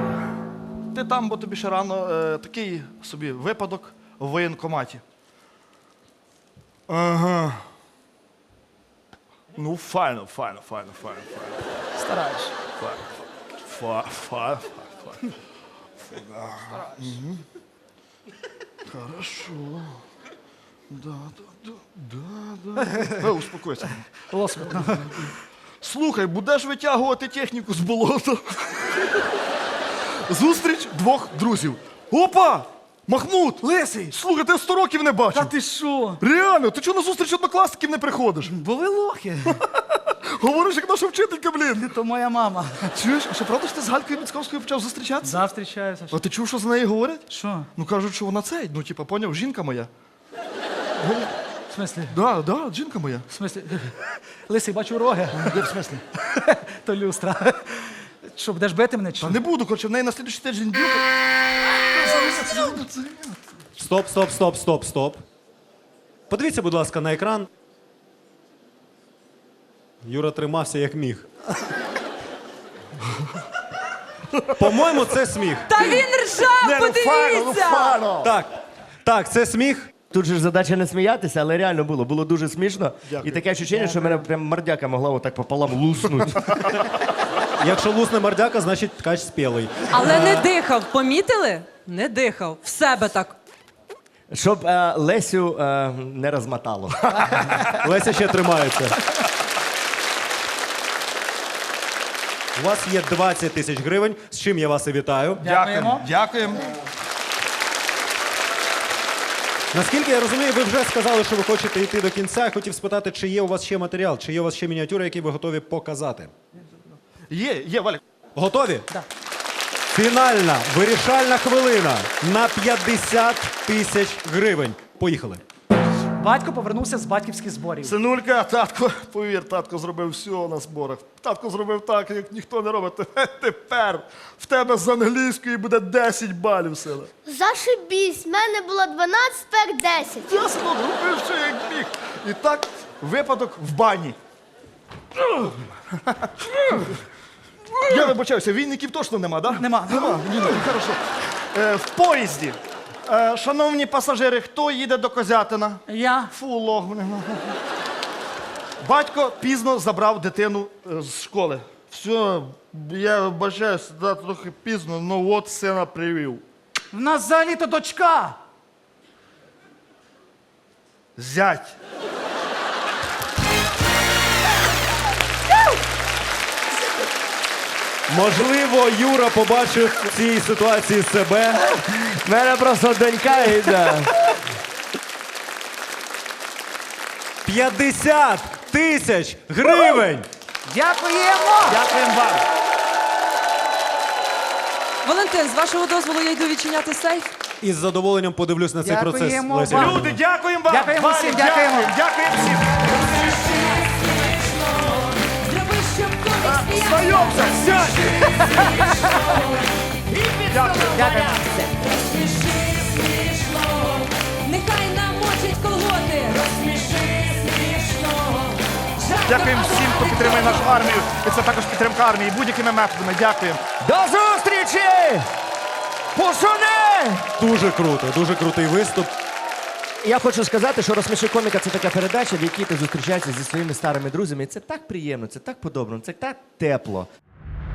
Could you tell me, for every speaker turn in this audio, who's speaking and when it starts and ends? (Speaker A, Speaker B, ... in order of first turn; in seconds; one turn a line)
Speaker A: 0.9-5.0
Speaker A: 6.9-7.6
Speaker A: 9.6-11.6
Speaker B: 12.0-12.5
Speaker A: 12.8-15.2
Speaker A: 16.1-17.4
Speaker A: 18.9-20.0
Speaker A: 20.9-24.1
Speaker B: 24.3-25.3
Speaker A: 24.7-25.0
Speaker A: 25.8-29.1
Speaker A: 30.3-35.5
Speaker B: 33.6-34.2
Speaker B: 35.3-36.2
Speaker A: 36.2-38.5
Speaker B: 38.4-39.6
Speaker A: 39.6-41.9
Speaker B: 41.8-42.9
Speaker A: 42.9-45.4
Speaker B: 45.2-46.2
Speaker A: 46.1-49.9
Speaker B: 47.3-47.7
Speaker A: 51.0-51.3
Speaker B: 51.7-52.1
Speaker A: 52.1-53.2
Speaker B: 53.3-55.8
Speaker A: 55.3-56.0
Speaker B: 56.4-59.4
Speaker A: 59.2-61.1
Speaker A: 61.8-63.4
Speaker C: 63.8-65.2
Speaker C: 66.3-67.5
Speaker C: 70.0-71.3
Speaker C: 74.6-75.7
Speaker D: 75.7-78.0
Speaker A: 75.8-78.3
Speaker C: 78.2-78.5
Speaker C: 79.0-79.9
Speaker E: 80.1-86.5
Speaker A: 83.1-83.9
Speaker A: 86.5-86.8
Speaker C: 87.6-90.0
Speaker D: 89.9-93.4
Speaker E: 94.3-97.0
Speaker B: 97.2-97.6
Speaker C: 97.7-99.0
Speaker C: 102.5-105.4
Speaker B: 105.4-106.0
Speaker A: 105.4-106.7
Speaker C: 109.7-116.3
Speaker A: 117.3-118.0
Speaker C: 118.4-118.9
Speaker C: 119.9-125.4
Speaker B: 126.2-128.0
Speaker A: 127.8-137.1
Speaker F: 137.3-140.3
Speaker A: 140.3-144.2
Speaker A: 146.1-146.9
Speaker A: 147.8-157.6
Speaker B: 149.6-150.3
Speaker B: 155.9-156.3
Speaker A: 158.8-166.4
Speaker B: 166.9-168.4
Speaker A: 171.2-171.7
Speaker C: 178.1-181.7
Speaker E: 181.8-184.1
Speaker C: 187.4-190.2
Speaker B: 190.7-192.4
Speaker A: 191.9-192.2
Speaker D: 195.0-197.3
Speaker C: 197.6-200.2
Speaker B: 198.8-200.1
Speaker A: 199.7-202.8
Speaker B: 200.7-201.9
Speaker D: 203.2-209.3
Speaker A: 206.4-208.6
Speaker B: 208.4-209.1
Speaker E: 210.2-211.4
Speaker A: 210.5-211.3
Speaker B: 210.9-211.6
Speaker D: 211.7-220.8
Speaker A: 219.2-223.7
Speaker E: 223.8-225.3
Speaker E: 226.1-227.3
Speaker C: 227.4-229.1
Speaker E: 230.0-237.1